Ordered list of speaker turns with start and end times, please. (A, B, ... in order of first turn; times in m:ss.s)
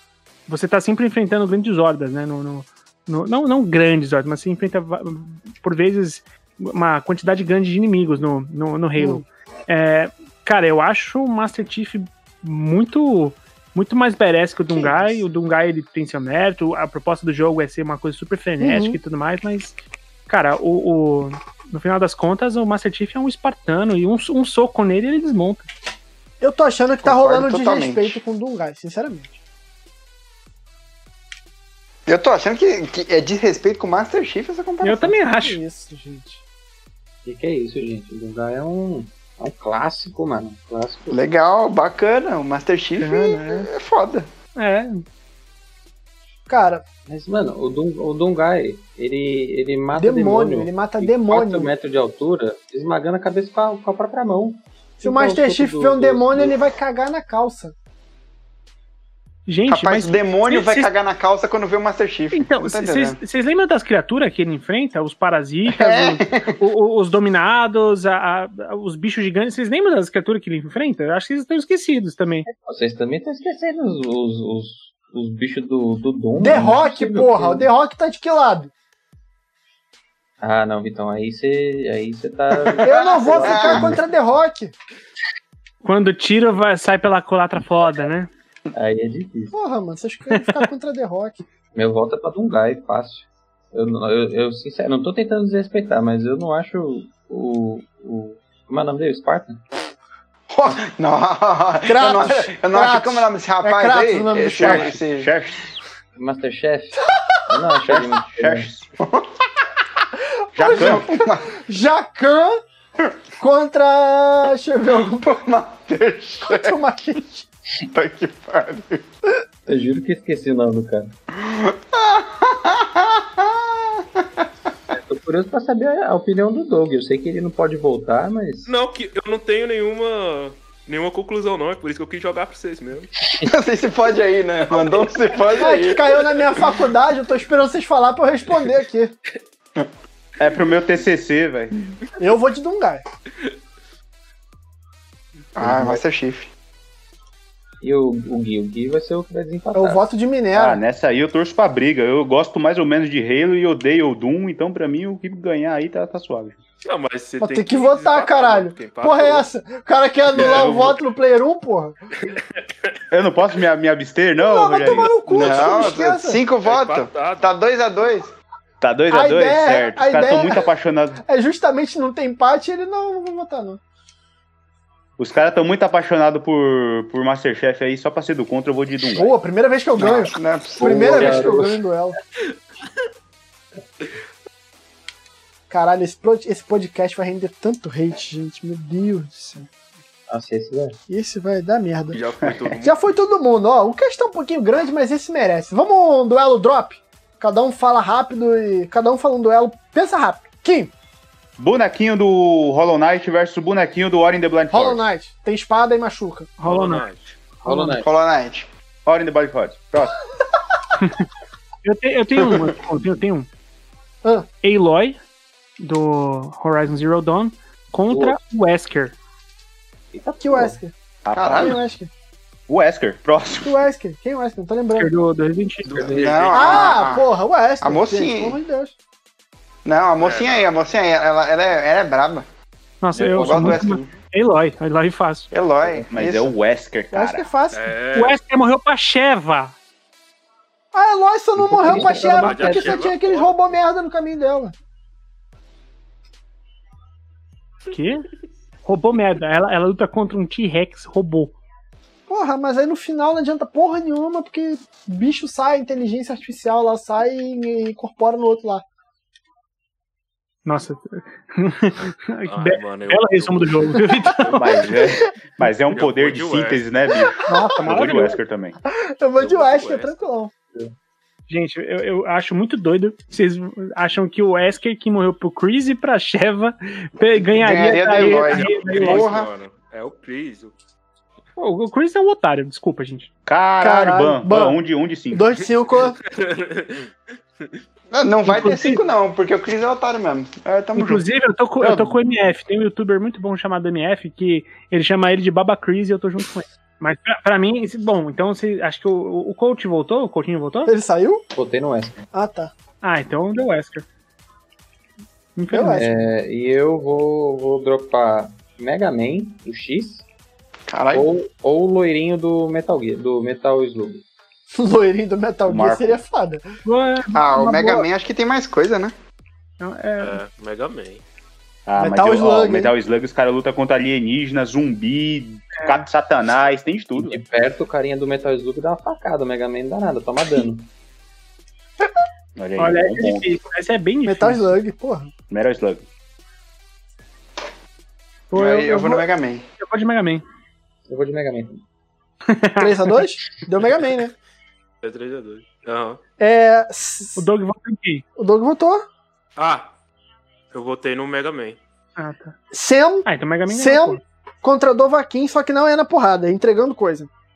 0:00.5-0:19.7 A
0:09.0-0:09.2 B
0:14.7-0:15.1 B
0:18.6-0:19.0 B
0:20.3-0:25.7 A
0:26.4-0:29.4 B
0:27.0-0:28.2 C
0:32.1-0:35.1 C
0:34.8-0:35.6 A
0:35.3-0:36.4 B
0:37.2-0:41.2 D
0:41.1-0:44.3 C
0:43.0-0:43.7 A
0:44.6-0:45.0 A
0:46.5-0:46.8 B
0:47.1-0:56.6 D
0:49.9-0:51.7 B
0:55.0-0:57.7 B
0:59.5-1:00.9 A
0:59.7-1:03.2 C
1:02.3-1:12.5 A
1:05.7-1:06.6 C
1:12.5-1:17.7 D
1:16.4-1:18.7 B
1:20.4-1:24.0 D
1:22.7-1:24.0 C
1:22.8-1:24.7 B
1:25.8-1:28.3 A
1:28.7-1:29.5 D
1:29.5-1:31.4 B
1:31.7-1:39.6 D
1:40.5-1:45.3 C
1:41.8-1:44.9 B
1:44.6-1:45.6 E
1:46.2-1:48.7 D
1:47.9-1:48.9 E
1:49.0-1:49.3 C
1:50.5-1:52.6 B
1:50.6-1:51.0 E
1:50.7-1:51.6 C
1:53.4-1:55.4 B
1:55.0-1:56.8 C
1:56.5-1:57.4 B
1:57.9-1:59.0 C
1:59.7-2:01.1 D
2:01.4-2:04.5 C
2:04.9-2:08.7 D
2:08.6-2:13.1 F
2:13.4-2:16.2 C
2:14.8-2:15.1 F
2:15.5-2:19.1 B
2:20.4-2:21.9 E
2:22.2-2:23.0 B
2:25.6-2:26.5 C
2:25.6-2:25.9 D
2:27.8-2:30.1 D
2:29.7-2:30.8 B
2:30.5-2:36.6 E
2:36.8-2:39.5 F
2:37.4-2:41.9 B
2:40.3-2:41.0 E
2:40.3-2:40.8 F
2:43.1-2:45.2 E
2:44.4-2:46.4 B
2:45.3-2:48.3 C
2:46.6-2:47.5 F
2:48.8-2:51.2 E
2:49.1-2:50.7 B
2:51.2-2:53.8 B
2:55.2-2:59.3 E
2:59.1-3:02.2 B
3:00.0-3:01.7 C
3:00.8-3:01.8 D
3:05.7-3:09.7 B
3:10.3-3:11.0 D
3:11.1-3:12.2 B
3:12.1-3:12.9 F
3:12.8-3:20.9 B
3:21.6-3:25.0 E
3:24.7-3:26.5 B
3:26.6-3:27.0 A
3:26.6-3:27.4 F
3:27.6-3:28.0 A
3:27.6-3:28.2 D
3:28.0-3:28.7 C
3:29.0-3:30.2 E
3:31.0-3:31.2 A
3:31.8-3:33.5 A
3:34.6-3:35.2 A
3:35.8-3:39.2 A
3:38.1-3:38.4 D
3:40.1-3:40.8 D
3:40.2-3:40.9 B
3:41.2-3:41.8 E
3:41.3-3:41.8 C
3:41.6-3:42.1 B
3:42.7-3:43.7 E
3:43.6-3:45.1 B
3:44.9-3:46.0 A
3:45.8-3:47.0 F
3:45.9-3:46.6 D
3:46.1-3:47.3 C
3:46.5-3:48.9 B
3:47.8-3:48.6 C
3:49.8-3:52.4 C
3:50.2-3:50.8 F
3:53.0-3:55.5 A
3:53.2-3:54.0 D
3:53.3-3:54.1 C
3:55.5-3:56.5 C
3:56.0-3:57.5 E
3:57.1-3:57.9 B
3:57.7-3:58.4 F
3:58.1-3:59.8 A
4:00.9-4:04.7 B
4:01.6-4:03.1 D
4:01.9-4:03.7 F
4:07.9-4:08.3 A
4:08.8-4:11.6 A
4:12.3-4:18.8 B
4:20.6-4:24.6 A
4:22.4-4:24.9 F
4:24.5-4:28.8 E
4:25.9-4:26.8 F
4:27.4-4:28.4 A
4:27.5-4:28.3 B
4:28.9-4:30.5 B
4:29.4-4:30.2 F
4:31.5-4:39.3 A
4:37.6-4:39.5 C
4:38.1-4:40.7 F
4:41.6-4:43.3 A
4:43.4-4:45.5 E
4:43.8-4:44.8 B
4:45.3-4:46.2 B
4:46.2-4:47.1 F
4:48.1-4:51.3 C
4:48.4-4:49.0 A
4:50.9-5:00.9 A
4:51.8-4:52.1 E
5:00.8-5:01.4 B
5:01.6-5:02.2 D
5:02.3-5:02.7 B
5:03.0-5:04.0 A
5:05.6-5:06.0 A
5:05.7-5:06.1 B
5:06.0-5:10.2 D
5:10.9-5:11.3 C
5:11.1-5:14.2 D
5:14.7-5:16.6 B
5:15.7-5:16.2 E
5:16.8-5:18.0 A
5:17.3-5:19.1 C
5:19.8-5:20.4 A
5:20.2-5:21.2 F
5:21.8-5:27.4 E
5:22.0-5:22.9 B
5:25.8-5:26.0 A
5:27.2-5:30.9 D
5:32.6-5:33.5 E
5:32.8-5:34.8 A
5:34.2-5:35.3 B
5:35.5-5:36.0 E
5:38.5-5:39.2 A
5:38.5-5:39.6 C
5:39.8-5:40.4 A
5:41.1-5:41.8 D
5:42.5-5:43.1 A
5:42.8-5:44.3 B
5:45.0-5:46.2 F
5:46.4-5:47.4 B
5:47.4-5:48.2 A
5:48.4-5:49.0 B
5:49.6-5:49.9 F
5:50.7-5:51.8 F
5:52.2-5:52.6 A
5:52.7-5:57.3 B
5:53.2-5:54.2 A